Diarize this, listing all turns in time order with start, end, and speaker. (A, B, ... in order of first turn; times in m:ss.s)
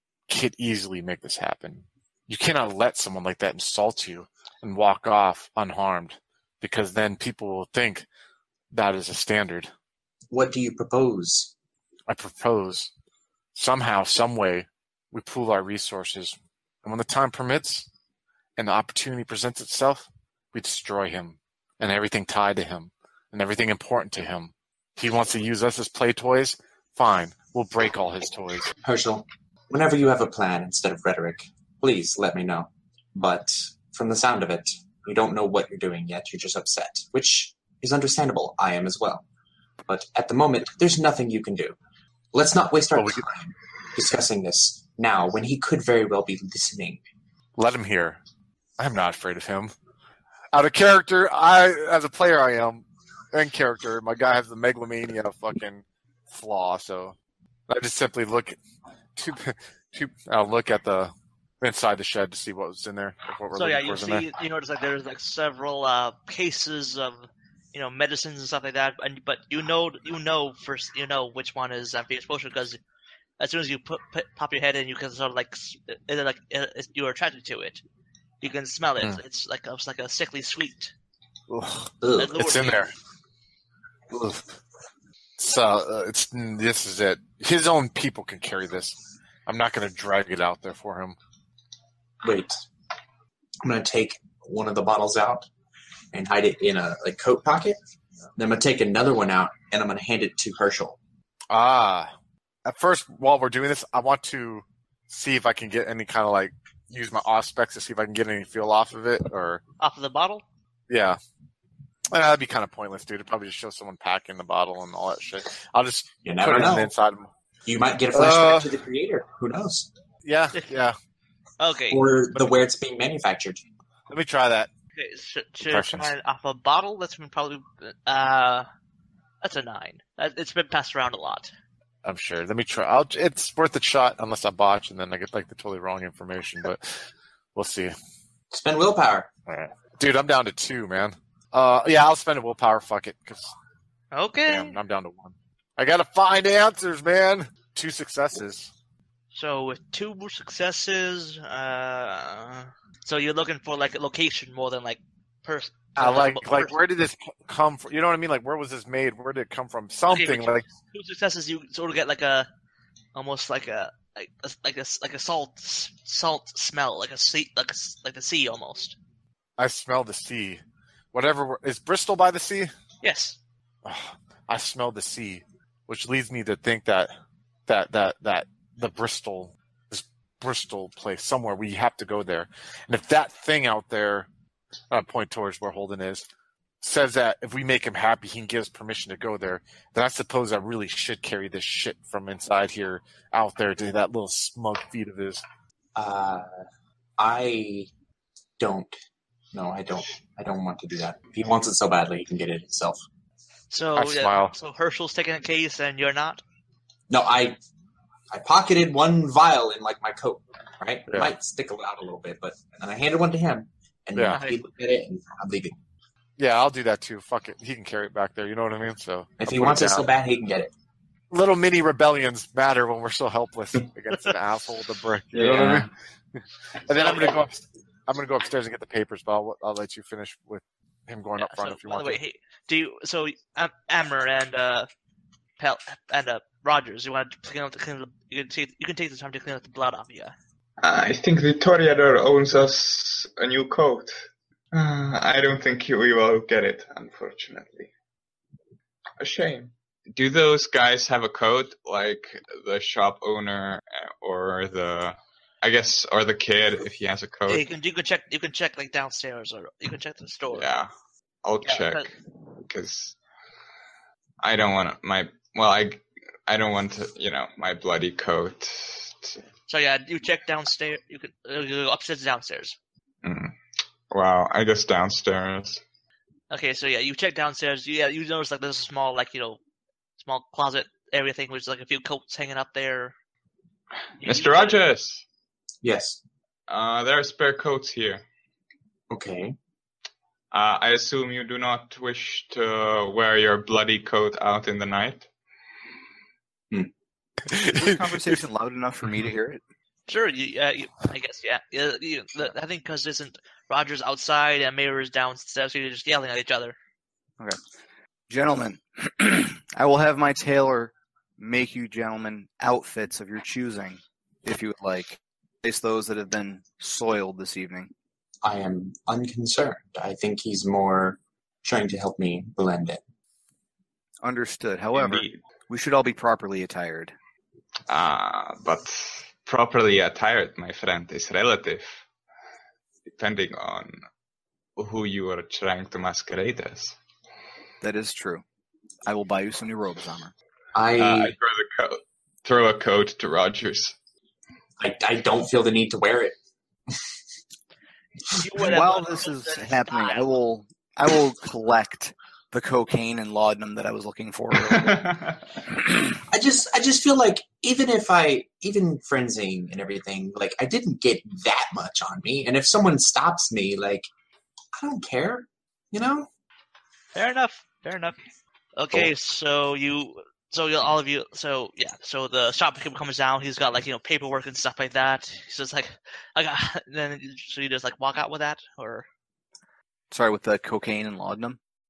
0:00.3-0:08.1 A
0:08.7-0:09.7 A
0:10.3-0:11.5 B
0:12.1-0:12.9 A
0:13.5-0:17.9 A
0:18.6-0:28.7 A
0:28.8-0:39.2 B
0:39.9-0:41.8 B
0:42.3-0:47.0 B
0:42.9-0:43.2 A
0:47.6-0:48.2 A
0:48.8-0:49.7 A
0:50.5-0:57.1 A
0:57.7-0:58.6 A
0:59.2-1:04.3 A
1:03.5-1:12.8 C
1:13.4-1:17.8 C
1:18.4-1:20.9 C
1:21.5-1:22.9 A
1:22.0-1:22.4 B
1:22.2-1:22.9 C
1:24.1-1:24.6 A
1:25.4-1:31.2 A
1:32.2-1:32.6 B
1:33.6-1:35.5 B
1:36.1-1:37.8 B
1:38.4-1:41.0 B
1:41.5-1:42.1 A
1:42.6-1:49.6 A
1:49.8-1:50.4 C
1:50.9-1:51.2 A
1:52.1-1:57.3 A
1:56.2-1:56.9 B
1:57.6-1:59.9 B
1:58.1-1:58.7 A
2:00.2-2:01.0 A
2:01.6-2:02.0 C
2:01.9-2:03.6 B
2:04.1-2:04.7 A
2:04.9-2:08.7 C
2:05.6-2:06.1 A
2:09.4-2:11.5 C
2:12.0-2:17.0 A
2:17.5-2:17.9 A
2:18.5-2:19.3 B
2:19.5-2:23.5 A
2:24.1-2:24.8 C
2:24.5-2:28.7 A
2:29.3-2:36.8 C
2:36.0-2:40.6 A
2:40.1-2:42.5 C
2:43.1-2:49.0 C
2:49.6-2:50.6 A
2:51.1-2:52.7 A
2:53.0-2:53.4 C
2:53.8-2:57.1 A
2:57.7-3:04.3 A
3:04.9-3:06.3 A
3:06.8-3:15.4 A
3:16.0-3:16.4 B
3:17.2-3:17.9 B
3:18.6-3:19.0 B
3:19.5-3:23.0 B
3:23.7-3:26.4 C
3:24.0-3:24.5 A
3:27.1-3:27.6 B
3:28.3-3:35.8 B
3:34.1-3:34.4 A
3:34.3-3:34.6 C
3:36.4-3:40.1 A
3:39.4-3:40.7 B
3:41.3-3:52.2 A
3:45.4-3:45.7 B
3:46.9-3:47.3 C
3:51.4-3:54.9 C
3:55.6-4:00.3 C
4:00.8-4:07.9 D
4:09.2-4:17.7 D
4:17.5-4:20.7 C
4:20.5-4:20.9 D
4:21.4-4:23.2 D
4:21.6-4:22.1 C
4:24.4-4:29.4 D
4:29.7-4:32.8 C
4:33.2-4:33.5 D
4:34.1-4:35.8 D
4:36.5-4:39.6 C
4:40.2-4:43.1 C
4:44.2-4:45.2 D
4:44.2-4:44.8 C
4:45.8-4:46.2 B
4:46.7-4:48.2 D
4:49.1-4:49.6 B
4:50.5-4:55.3 D
4:57.5-4:58.4 A
4:57.7-4:59.6 E
5:00.1-5:06.8 C
5:08.3-5:17.9 E
5:18.4-5:23.0 B
5:24.2-5:27.1 E
5:24.9-5:25.4 D
5:27.9-5:32.0 D
5:33.0-5:34.0 D
5:34.8-5:37.0 D
5:37.8-5:38.4 E
5:39.0-5:40.3 E
5:40.7-5:41.4 B
5:41.0-5:43.9 D
5:44.8-5:46.4 B
5:48.3-5:50.2 C
5:48.6-5:55.1 E
5:54.6-5:55.4 D
5:55.7-5:56.2 E
5:56.3-6:04.1 B
6:04.8-6:06.3 B
6:07.1-6:08.2 C
6:08.8-6:19.1 C
6:20.1-6:21.6 E